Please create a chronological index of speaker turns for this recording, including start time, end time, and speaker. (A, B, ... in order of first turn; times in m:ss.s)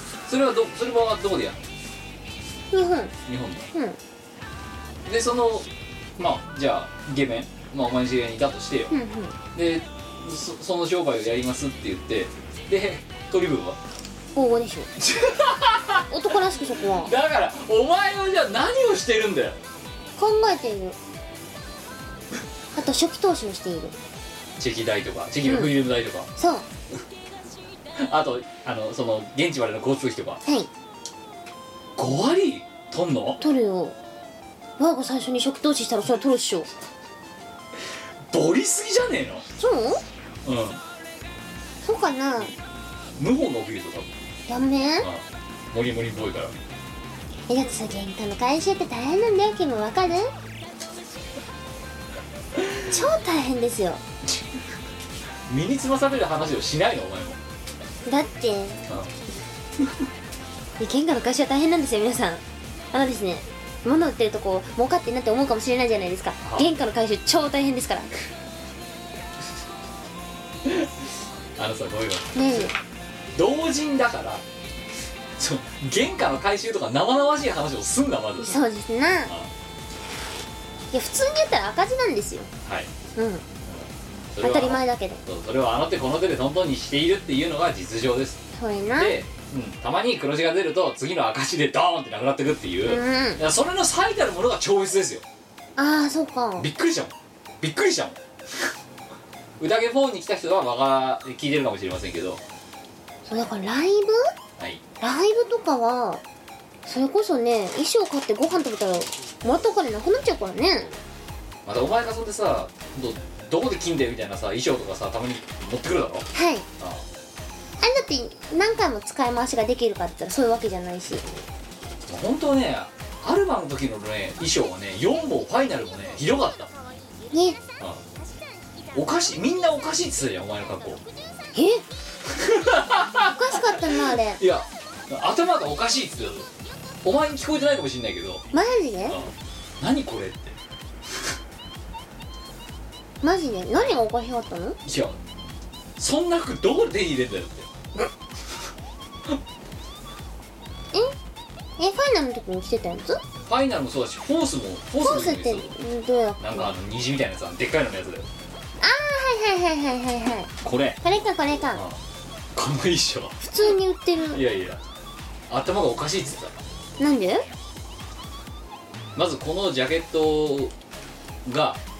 0:00.3-0:01.6 A
0:02.7-0:03.1 B
0:03.3-0:03.7 A
0:05.1-0:08.9 A
0:08.9-0:09.4 B
0:09.6-0:13.8 A
0:14.4-0:14.9 B
0:15.0-0:16.1 A
0:16.1-0:17.1 B
0:17.0-0:19.6 A
0:20.2-0:21.0 B
0:22.8-0:24.0 B
0:24.6-0:26.3 A
0:25.4-0:25.7 B
0:26.4-0:26.7 B
0:28.0-0:30.4 A
0:32.0-0:33.4 A
0:33.4-0:34.0 B
0:34.8-0:36.7 B
0:38.3-0:39.5 A
0:39.6-0:40.0 B
0:40.4-0:40.8 A
0:41.8-0:42.5 B
0:43.2-0:44.1 A
0:44.5-0:45.1 B
0:45.0-0:46.5 A
0:47.5-0:50.3 B
0:52.9-0:54.0 B
0:55.5-0:57.4 A
0:58.1-0:58.8 B
1:00.8-1:08.1 B
1:06.4-1:06.7 A
1:10.6-1:12.7 A
1:12.4-1:12.7 B
1:13.4-1:14.4 A
1:15.4-1:18.6 A
1:18.4-1:19.3 B
1:20.9-1:22.5 B
1:22.6-1:22.9 A
1:23.2-1:23.4 B
1:23.7-1:28.4 A
1:24.4-1:25.2 B
1:28.6-1:29.2 B
1:29.0-1:35.2 A
1:32.9-1:33.4 B
1:35.8-1:36.7 B
1:36.6-1:38.7 A
1:39.6-1:42.4 A
1:43.3-1:44.3 B
1:45.0-1:46.2 B
1:46.9-1:50.9 B
1:51.7-1:57.0 A
1:56.3-1:56.7 B
1:57.8-2:01.2 B
2:02.1-2:06.7 A
2:07.3-2:07.6 B
2:08.9-2:11.0 A
2:11.6-2:11.8 B
2:12.3-2:16.5 A
2:13.3-2:14.4 B
2:17.0-2:18.4 A
2:18.5-2:19.2 B
2:19.1-2:20.6 A
2:23.2-2:24.8 B
2:24.8-2:25.2 A
2:26.0-2:27.7 A
2:31.8-2:33.2 B
2:33.5-2:35.7 A
2:35.0-2:36.7 B
2:36.4-2:38.3 A
2:38.8-2:40.5 B
2:40.6-2:41.0 A
2:41.0-2:41.8 B
2:42.6-2:43.4 A
2:43.4-2:44.4 B
2:44.3-2:44.8 A
2:45.5-2:46.6 A
2:47.0-2:47.5 B
2:49.2-2:50.7 A
2:51.4-2:51.8 A